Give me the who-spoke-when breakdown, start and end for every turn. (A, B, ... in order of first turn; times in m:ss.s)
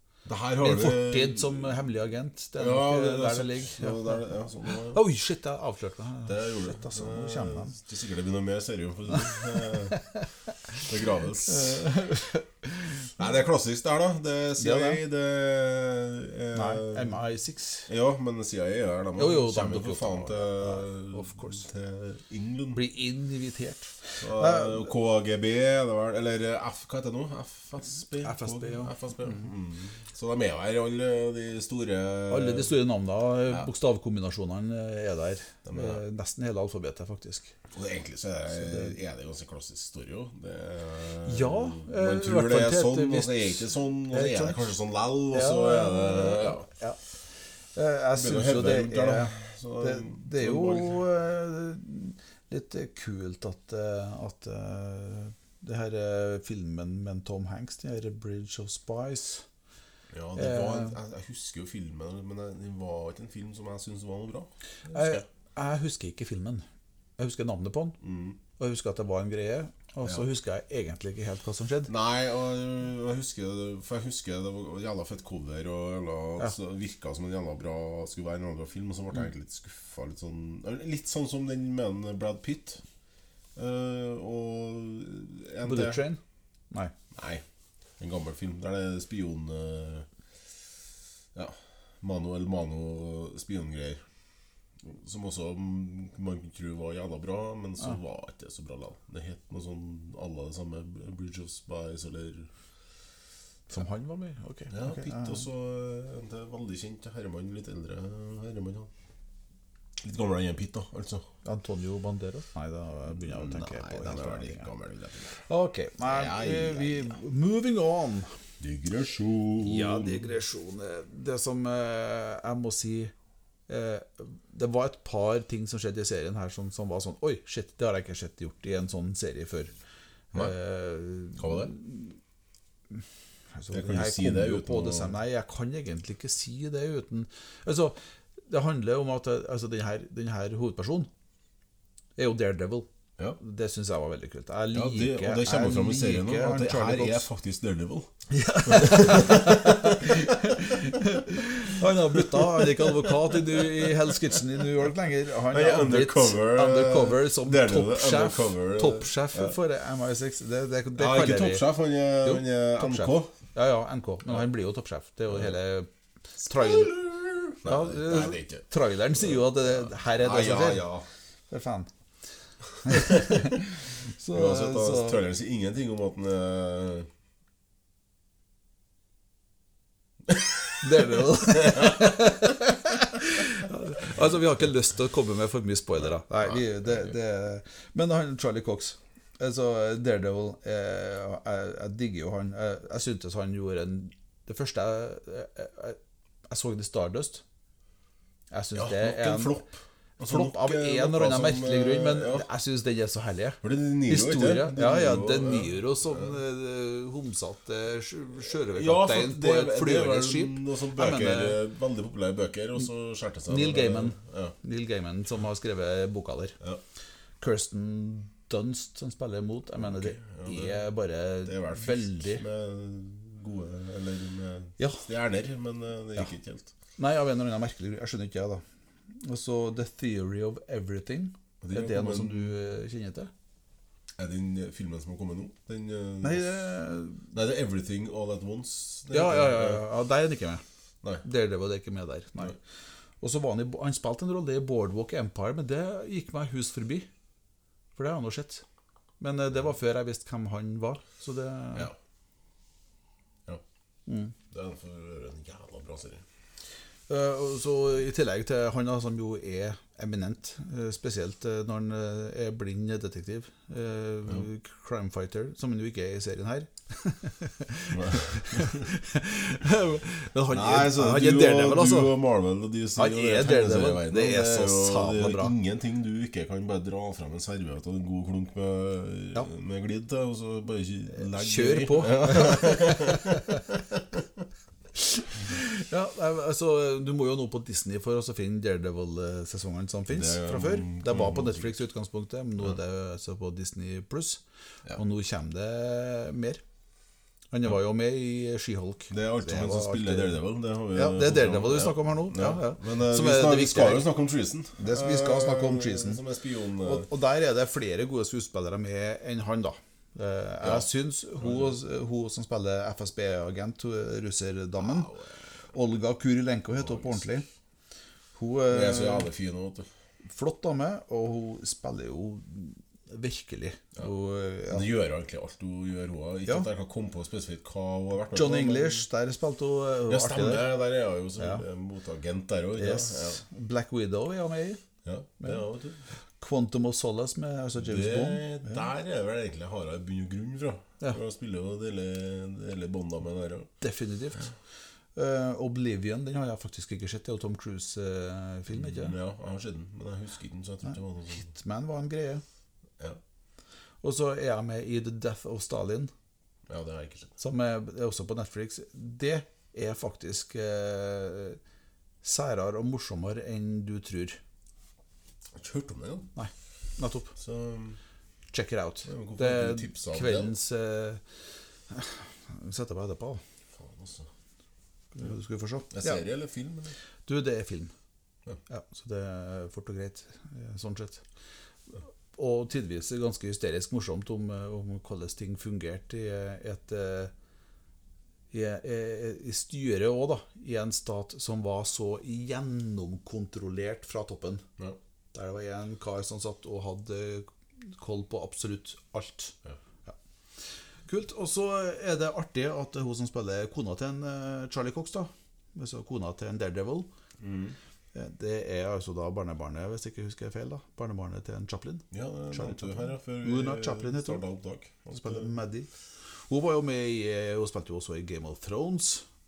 0:00.2-0:01.8 A
0:00.6-0:07.8 B
0:02.6-0:05.0 A
0:06.3-0:10.0 A
0:09.3-0:10.3 B
0:10.8-0:11.8 A
0:11.5-0:13.1 B
0:13.2-0:17.2 A
0:14.6-0:15.0 B
0:16.5-0:17.9 B
0:17.9-0:22.8 A
0:19.2-0:21.6 B
0:22.7-0:24.9 B
0:24.2-0:32.8 A
0:28.2-0:29.4 B
0:32.3-0:37.5 B
0:35.6-0:36.0 A
0:37.7-0:46.7 A
0:38.5-0:39.0 B
0:41.2-0:44.7 B
0:45.3-0:47.0 B
0:47.8-0:59.4 B
0:48.2-0:51.1 A
1:00.1-1:05.2 A
1:00.4-1:01.0 B
1:04.9-1:06.6 B
1:07.2-1:08.0 B
1:08.0-1:08.4 A
1:08.6-1:11.9 B
1:11.9-1:22.8 A
1:23.6-1:26.0 A
1:25.6-1:26.2 B
1:27.1-1:27.4 A
1:28.0-1:30.1 A
1:31.3-1:34.0 A
1:34.8-1:42.5 A
1:43.7-1:45.4 B
1:44.7-1:48.9 A
1:50.0-1:51.2 A
1:51.4-1:54.7 B
1:53.1-1:55.4 A
1:55.5-1:58.3 B
1:56.0-1:57.2 A
1:58.6-2:00.3 A
1:59.6-2:03.1 B
2:03.7-2:09.7 B
2:10.3-2:12.2 B
2:11.4-2:11.7 A
2:13.5-2:21.1 B
2:13.7-2:15.1 A
2:22.2-2:22.9 B
2:23.4-2:27.3 B
2:24.7-2:28.1 A
2:28.3-2:41.7 B
2:28.6-2:30.5 A
2:32.0-2:34.4 A
2:35.5-2:39.6 A
2:41.0-2:43.3 A
2:42.2-2:45.9 B
2:45.3-2:45.6 A
2:46.4-2:50.9 B
2:46.4-2:51.1 A
2:51.5-2:51.9 B
2:52.8-2:55.2 B
2:54.3-2:57.1 A
3:00.8-3:17.4 B
3:01.6-3:02.1 A
3:06.3-3:07.0 A
3:18.5-3:19.6 B
3:18.8-3:22.5 A
3:20.3-3:31.6 B
3:23.6-3:26.4 A
3:28.7-3:34.6 A
3:33.5-3:36.6 B
3:37.4-3:42.4 B
3:39.8-3:40.9 A
3:41.4-3:46.7 A
3:44.8-3:45.1 B
3:47.0-3:48.6 B
3:49.2-3:53.3 B
3:51.6-3:52.6 A
3:54.2-3:56.7 A
3:56.2-3:57.3 B
3:57.3-3:59.8 A
3:59.1-4:00.6 B
4:01.2-4:02.6 B
4:03.2-4:07.1 B
4:08.0-4:08.6 B
4:09.2-4:11.9 B
4:14.1-4:14.3 B
4:14.5-4:16.2 A
4:17.1-4:32.2 B
4:27.9-4:28.9 A
4:30.5-4:44.0 A
4:33.0-4:35.6 B
4:41.2-4:43.6 B
4:45.0-4:54.4 B
4:50.1-4:51.8 A
4:54.9-4:56.6 B
4:57.5-5:04.1 B
4:59.1-5:07.1 A
5:04.8-5:06.2 B
5:06.8-5:15.1 B
5:10.6-5:10.9 A
5:11.4-5:11.8 A
5:14.8-5:15.4 A
5:15.7-5:17.4 B
5:16.8-5:17.2 A
5:18.3-5:19.3 B
5:18.7-5:19.9 A
5:20.2-5:24.9 B
5:24.7-5:29.1 A
5:28.3-5:30.7 B
5:30.1-5:33.4 A
5:31.4-5:31.6 B
5:32.8-5:34.8 B
5:35.0-5:36.0 A
5:36.4-5:38.8 B
5:37.7-5:43.7 A
5:43.8-5:44.5 B
5:45.2-5:49.2 B
5:48.7-5:51.4 A
5:50.9-5:52.4 B
5:54.0-5:56.1 B
5:56.7-5:57.3 A
5:57.4-6:01.6 B
6:02.2-6:04.4 B
6:05.6-6:06.3 A
6:06.3-6:07.3 B
6:07.4-6:08.0 A
6:08.5-6:11.2 B
6:09.0-6:10.5 A
6:11.9-6:13.4 B
6:13.7-6:14.3 A
6:15.1-6:16.3 B
6:15.9-6:16.9 A
6:17.3-6:17.9 B
6:18.7-6:21.2 B
6:22.3-6:27.3 B
6:28.5-6:34.6 B
6:35.3-6:40.2 B
6:41.1-6:47.1 B
6:47.4-6:47.8 A
6:48.1-6:54.4 B
6:52.1-6:55.5 A
6:55.1-6:55.9 B
6:56.5-6:59.2 B